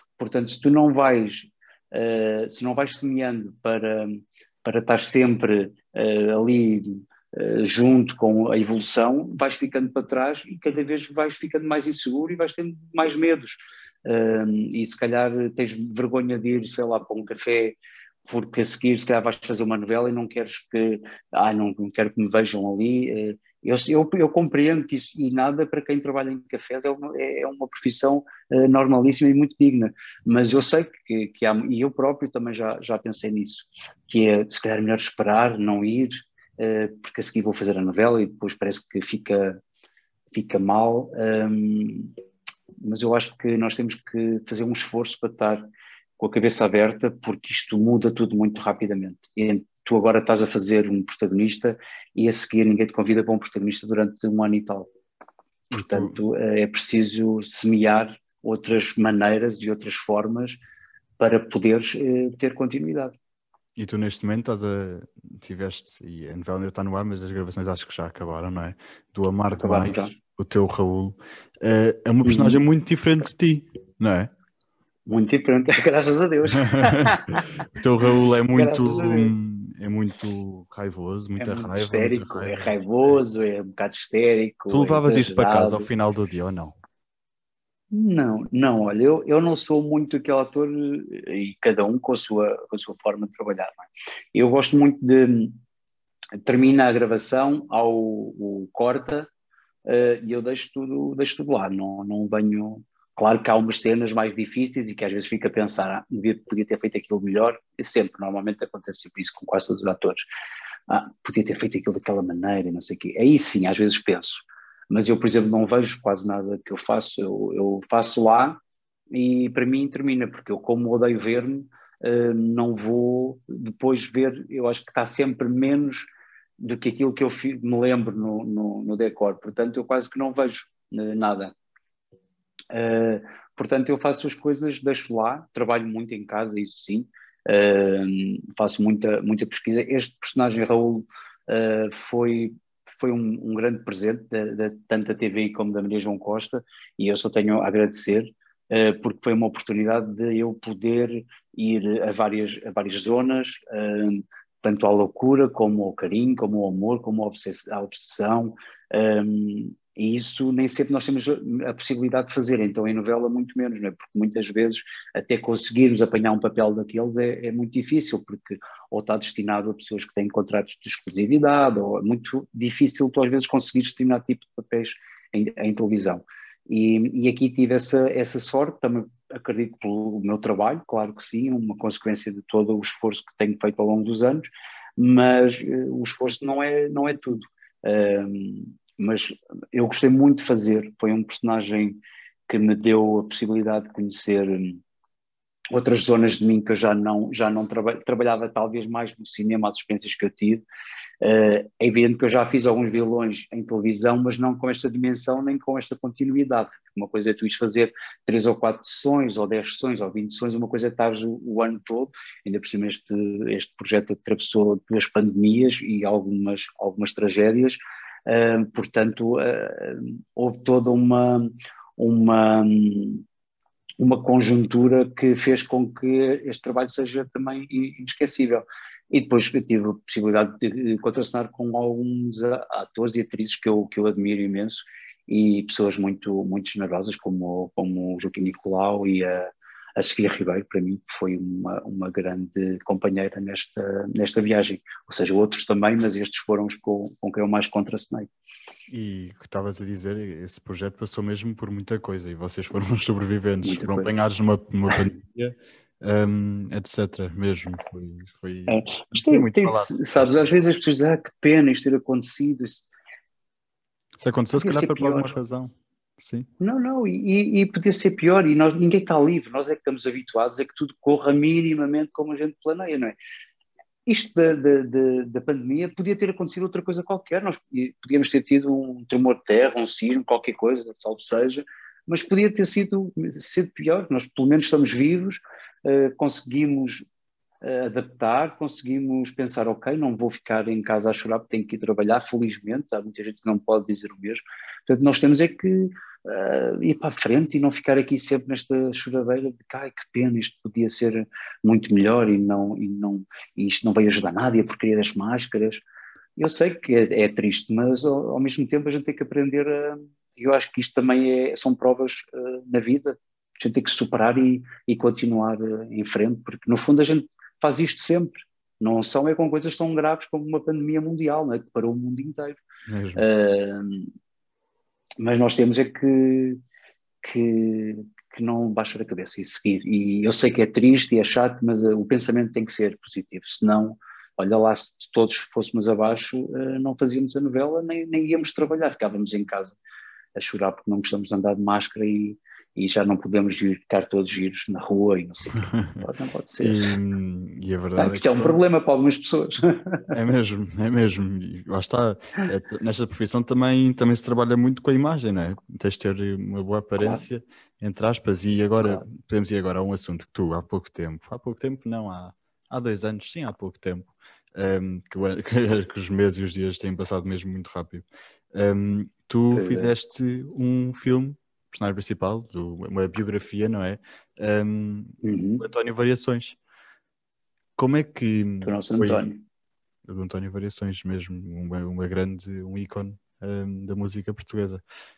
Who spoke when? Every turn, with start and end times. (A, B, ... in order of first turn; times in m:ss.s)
0:00.2-0:39.6 A
0:40.3-0:42.2 A
0:42.8-0:45.7 A
0:46.2-0:54.9 A
0:55.7-0:56.2 B
0:55.7-1:00.6 A
1:01.2-1:03.2 A
1:03.8-1:14.3 B
1:09.5-1:10.2 A
1:12.2-1:12.6 A
1:15.1-1:17.6 A
1:16.6-1:22.7 B
1:18.5-1:19.3 A
1:21.4-1:25.9 A
1:24.7-1:26.8 B
1:27.9-1:35.6 A
1:36.4-1:39.3 A
1:39.9-1:50.2 A
1:50.9-1:58.6 A
1:59.1-2:11.5 A
2:12.7-3:14.8 A
3:15.7-3:20.6 A
3:21.2-3:43.2 A
3:44.0-4:08.3 A
4:08.9-4:20.5 B
4:13.6-4:14.1 A
4:18.7-4:22.9 A
4:24.2-4:26.5 B
4:24.6-4:25.4 A
4:26.6-4:33.2 A
4:34.1-4:47.0 A
4:47.6-5:05.8 A
5:06.4-5:22.6 A
5:22.9-5:23.2 B
5:23.2-5:24.1 A
5:25.2-5:26.6 A
5:27.2-5:39.8 A
5:40.4-5:46.9 A
5:46.6-5:48.6 B
5:48.0-5:50.1 A
5:50.1-6:16.6 B
6:09.5-6:09.9 A
6:15.2-6:15.6 A
6:17.8-6:19.3 B
6:18.6-6:19.4 A
6:20.1-6:24.8 B